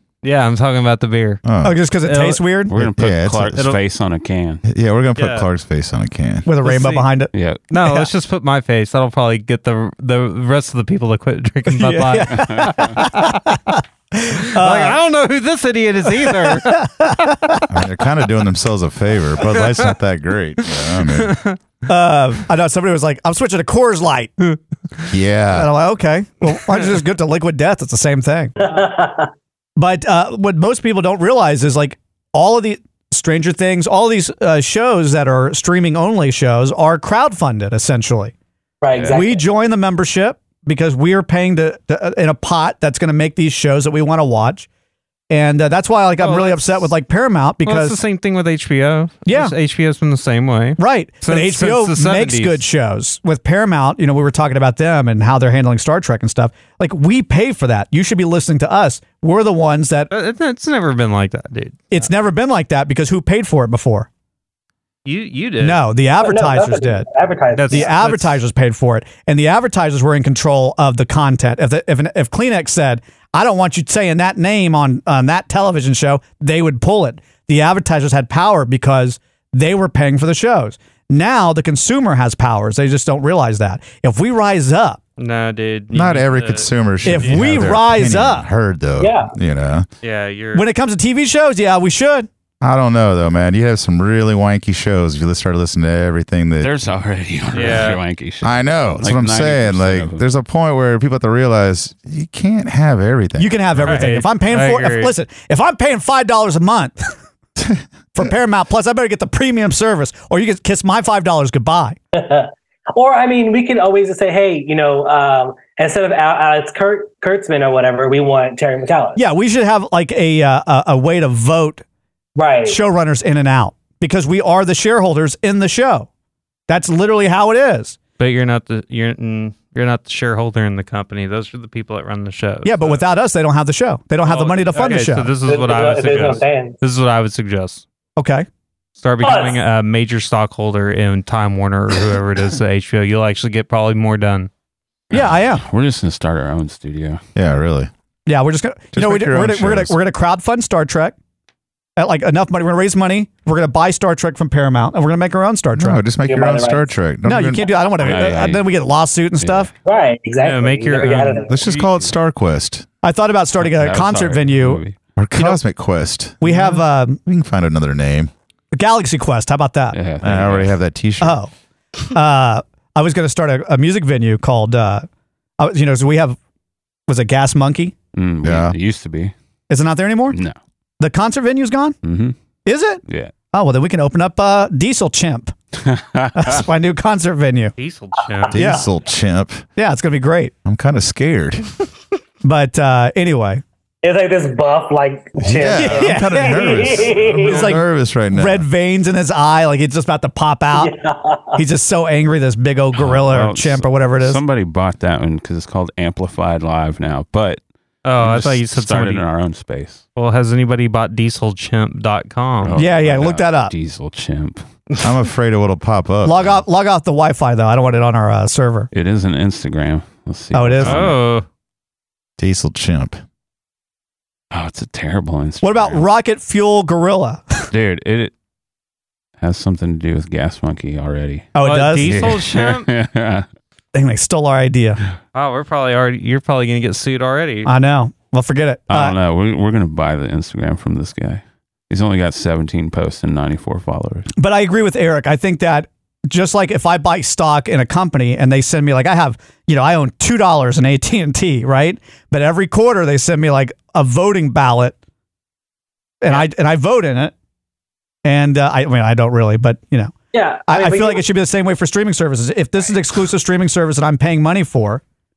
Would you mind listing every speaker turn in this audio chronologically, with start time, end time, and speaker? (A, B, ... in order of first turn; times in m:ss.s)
0:00.2-0:01.4 A
0:01.4-0:01.8 B
0:01.6-0:02.7 C
0:02.0-0:02.4 A
0:02.7-0:04.6 D
0:02.7-0:03.8 B
0:04.6-0:06.5 B
0:05.2-0:05.5 A
0:06.4-0:07.3 C
0:06.6-0:07.1 A
0:07.3-0:07.6 D
0:07.7-0:13.4 A
0:11.7-0:15.0 C
0:12.3-0:12.8 D
0:14.5-0:16.8 A
0:16.1-0:17.7 C
0:17.7-0:21.4 B
0:20.8-0:21.6 A
0:21.9-0:24.4 C
0:25.1-0:25.7 B
0:25.5-0:28.5 C
0:28.6-0:29.3 E
0:29.8-0:38.3 C
0:38.8-0:39.4 E
0:39.1-0:44.7 C
0:45.3-0:48.0 C
0:46.2-0:46.9 A
0:47.6-0:52.6 A
0:49.3-0:49.5 C
0:50.8-1:00.1 C
1:00.1-1:02.0 A
1:01.9-1:04.1 C
1:05.0-1:05.8 A
1:05.6-1:07.1 C
1:06.2-1:07.9 E
1:07.6-1:08.4 A
1:07.7-1:25.0 C
1:25.2-1:27.7 A
1:25.9-1:29.9 B
1:27.0-1:28.5 C
1:29.0-1:29.3 E
1:30.0-1:30.7 A
1:30.5-1:32.3 C
1:32.6-1:36.7 B
1:36.6-1:40.2 D
1:37.5-1:38.0 A
1:38.4-1:44.1 B
1:43.4-1:47.1 C
1:43.9-1:45.1 A
1:48.2-1:52.0 C
1:52.1-1:59.2 E
1:59.2-2:01.8 C
2:02.4-2:02.8 E
2:02.7-2:06.1 C
2:06.7-2:08.0 C
2:08.2-2:13.0 A
2:12.6-2:15.3 C
2:14.3-2:17.8 A
2:15.5-2:16.8 E
2:18.2-2:18.5 C
2:19.0-2:24.5 A
2:19.2-2:19.6 E
2:25.1-2:27.2 D
2:25.1-2:25.6 C
2:27.4-2:27.9 B
2:28.3-2:31.2 C
2:28.9-2:30.0 B
2:32.0-2:36.0 C
2:35.8-2:37.8 B
2:36.3-2:36.9 E
2:37.2-2:39.7 C
2:38.0-2:38.7 D
2:39.4-2:39.7 D
2:39.8-2:41.5 E
2:40.4-2:41.7 A
2:41.5-2:42.9 B
2:41.7-2:42.0 D
2:43.0-2:44.8 C
2:43.6-2:45.0 D
2:45.2-2:48.3 B
2:46.4-2:47.2 C
2:48.7-2:50.0 C
2:49.9-2:50.8 D
2:50.2-2:51.4 B
2:51.2-2:51.5 C
2:52.1-2:55.1 C
2:55.6-2:56.4 C
2:57.1-2:58.0 C
2:58.1-2:59.3 D
2:58.4-2:58.8 B
2:59.7-3:00.4 C
3:00.3-3:00.6 D
3:01.0-3:02.0 C
3:02.0-3:02.4 D
3:02.7-3:05.6 C
3:05.8-3:06.6 D
3:06.4-3:07.7 C
3:07.8-3:08.6 A
3:08.5-3:08.9 C
3:08.5-3:09.6 B
3:09.8-3:10.5 C
3:10.6-3:11.7 B
3:12.4-3:13.6 C
3:14.0-3:17.8 E
3:15.4-3:18.6 B
3:15.8-3:16.8 C
3:17.4-3:20.9 C
3:20.7-3:21.6 E
3:21.6-3:24.4 C
3:23.0-3:27.6 D
3:28.0-3:29.2 A
3:28.2-3:30.0 D
3:30.2-3:32.8 A
3:32.6-3:34.6 D
3:32.8-3:33.7 C
3:35.0-3:36.6 B
3:36.2-3:38.9 C
3:38.9-3:41.2 D
3:40.5-3:41.1 C
3:40.8-3:41.4 A
3:42.4-3:43.2 B
3:44.5-3:46.0 D
3:45.6-3:47.7 C
3:47.7-3:48.3 D
3:49.4-3:53.5 D
3:51.6-3:52.3 C
3:51.6-3:52.9 A
3:53.9-3:55.0 C
3:55.3-3:57.7 A
3:57.6-3:59.2 C
3:58.9-4:04.3 D
4:04.4-4:15.0 C
4:16.2-4:17.3 C
4:18.2-4:20.1 C
4:20.3-4:21.2 E
4:20.7-4:25.0 C